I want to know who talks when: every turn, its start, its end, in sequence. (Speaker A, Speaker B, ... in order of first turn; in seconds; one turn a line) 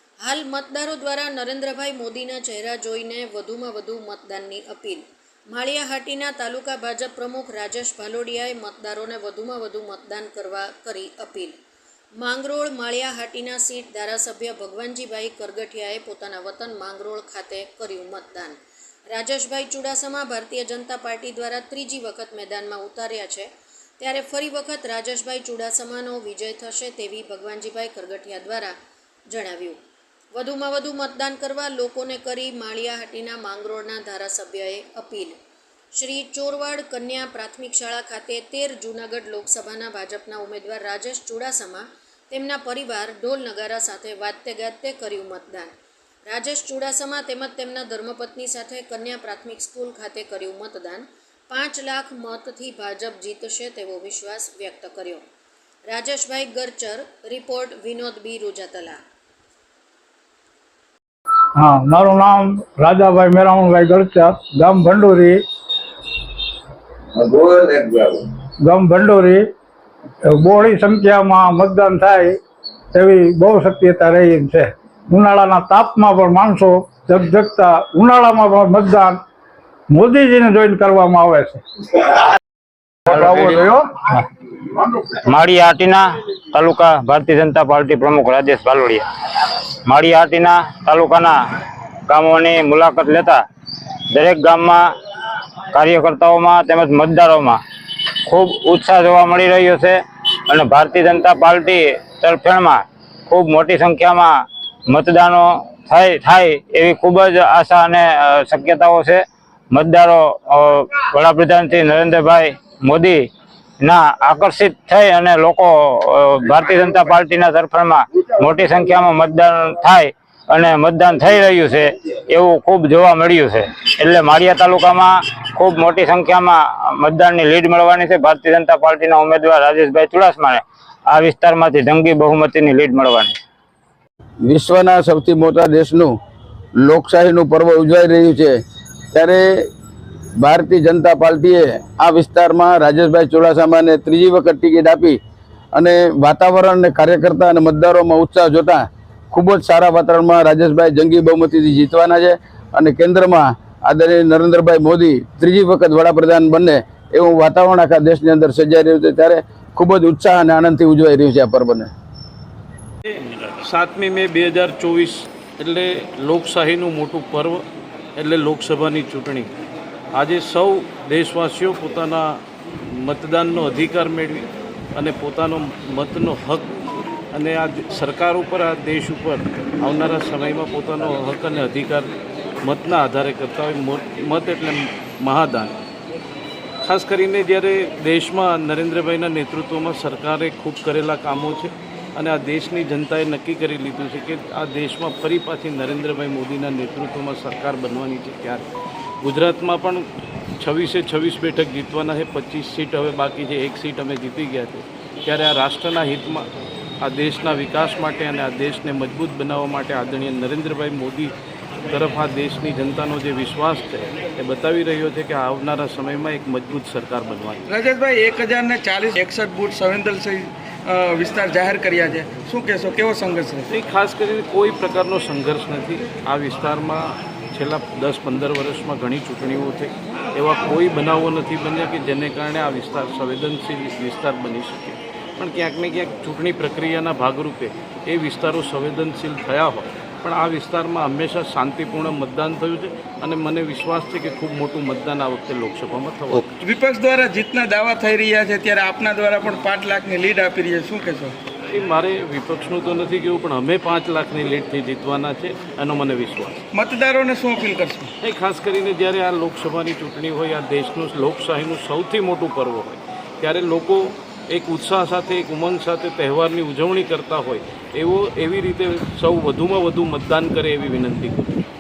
Speaker A: 0.2-11.6
Speaker A: 12.2-18.6
Speaker A: 19.1-28.7
Speaker A: 29.3-29.8
Speaker A: 30.4-35.4
Speaker A: 35.9-45.7
Speaker A: 46.3-55.2
Speaker A: 55.9-59.0
Speaker B: 61.6-65.4
Speaker C: 67.2-68.2
Speaker B: 68.6-69.5
Speaker B: 70.2-72.4
Speaker B: 72.9-79.2
Speaker B: 79.9-81.6
Speaker B: 83.1-84.0
Speaker D: 85.5-89.0
Speaker D: 89.9-91.4
Speaker D: 92.1-93.4
Speaker D: 94.2-94.8
Speaker D: 95.8-97.6
Speaker D: 98.3-99.9
Speaker D: 100.5-104.3
Speaker D: 104.9-109.2
Speaker D: 109.7-113.2
Speaker D: 113.8-133.3
Speaker C: 134.4-136.2
Speaker C: 136.8-138.6
Speaker C: 139.1-139.7
Speaker C: 140.4-145.2
Speaker C: 145.7-161.9
Speaker E: 163.1-167.6
Speaker E: 168.2-169.5
Speaker E: 170.1-172.4
Speaker E: 173.0-176.7
Speaker E: 177.3-182.1
Speaker E: 182.6-185.8
Speaker E: 186.8-198.7
Speaker E: 199.2-200.1
Speaker E: 200.6-206.5
Speaker E: 207.0-211.3
Speaker E: 211.9-217.6
Speaker F: 217.7-223.7
Speaker E: 223.7-246.6
Speaker F: 246.6-251.4
Speaker E: 251.7-256.6
Speaker F: 256.7-258.1
Speaker E: 258.2-271.6